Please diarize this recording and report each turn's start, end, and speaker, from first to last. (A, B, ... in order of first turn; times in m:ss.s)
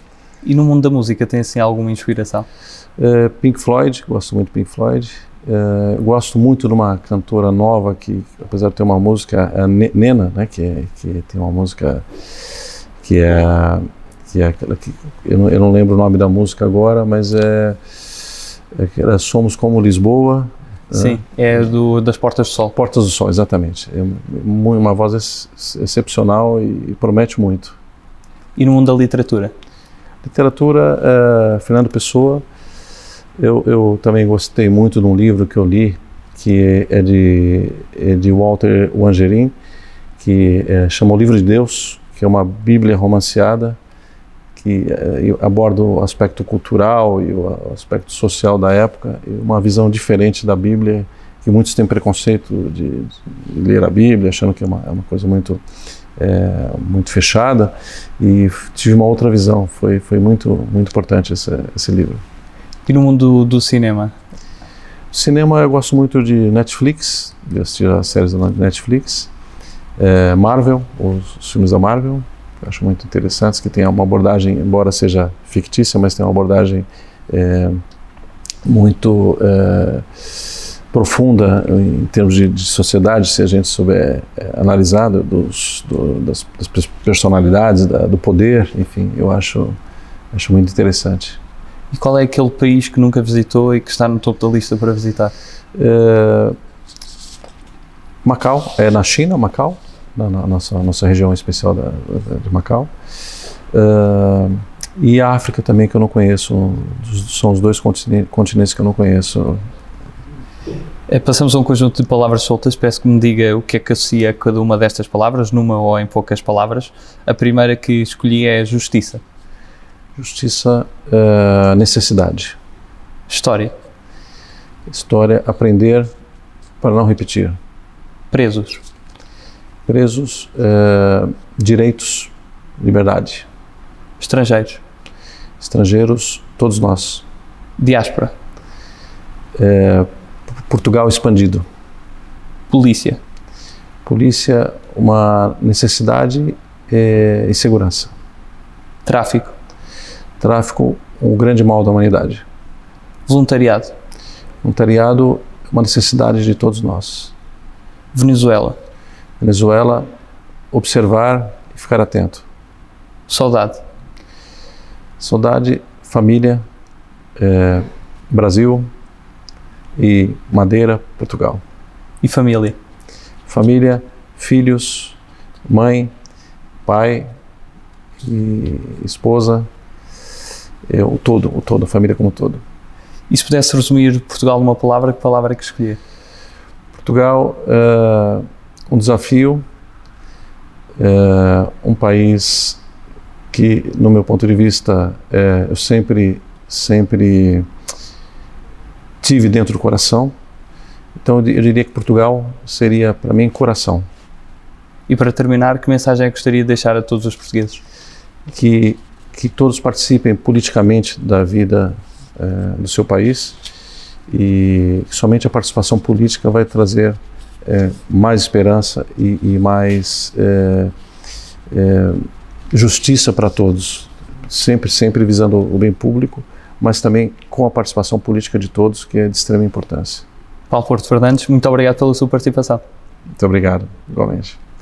0:00.4-0:02.5 A
0:03.0-0:17.8 B
0:18.7-0:21.2 B
0:20.9-0:22.7 A
0:22.7-0:27.8 B
0:28.6-0:29.5 A
0:30.2-0:32.4 B
0:33.4-0:39.5 B
0:40.2-0:43.8 B
0:44.6-0:55.6 B
0:56.2-1:02.2 B
1:02.8-1:04.1 A
1:05.1-1:09.3 B
1:10.0-1:17.8 B
1:18.6-1:29.8 B
1:30.3-1:31.4 B
1:31.9-1:35.3 A
1:35.7-1:36.6 B
1:38.2-1:42.9 B
1:43.7-1:49.6 B
1:51.1-1:59.2 A
2:00.2-2:02.6 B
2:03.3-2:03.7 A
2:04.9-2:06.1 B
2:06.8-2:07.6 B
2:08.3-2:08.8 A
2:09.8-2:13.5 B
2:14.2-2:14.8 A
2:15.6-2:17.2 B
2:17.8-2:18.3 A
2:19.6-2:21.6 B
2:22.7-2:23.2 A
2:24.0-2:28.1 B
2:29.0-2:29.5 A
2:30.4-2:32.4 B
2:33.3-2:33.9 A
2:34.6-2:37.3 B
2:38.1-2:38.8 A
2:39.4-2:40.1 B
2:40.7-2:42.5 B
2:43.3-2:43.8 A
2:45.2-2:46.6 B
2:47.4-2:48.9 B
2:50.0-2:51.6 B
2:52.2-2:52.8 A
2:53.5-2:56.1 B
2:56.8-2:57.3 B
2:58.2-2:59.7 B
3:00.9-3:02.6 B
3:03.3-3:06.0 A
3:07.0-3:09.6 B
3:11.0-3:12.8 B
3:13.5-3:17.7 B
3:19.2-3:20.3 B
3:21.2-3:24.0 B
3:25.1-3:27.8 A
3:28.5-3:33.6 B
3:34.3-3:40.9 B
3:41.7-3:50.2 B
3:50.7-3:52.8 A
3:53.4-3:54.6 B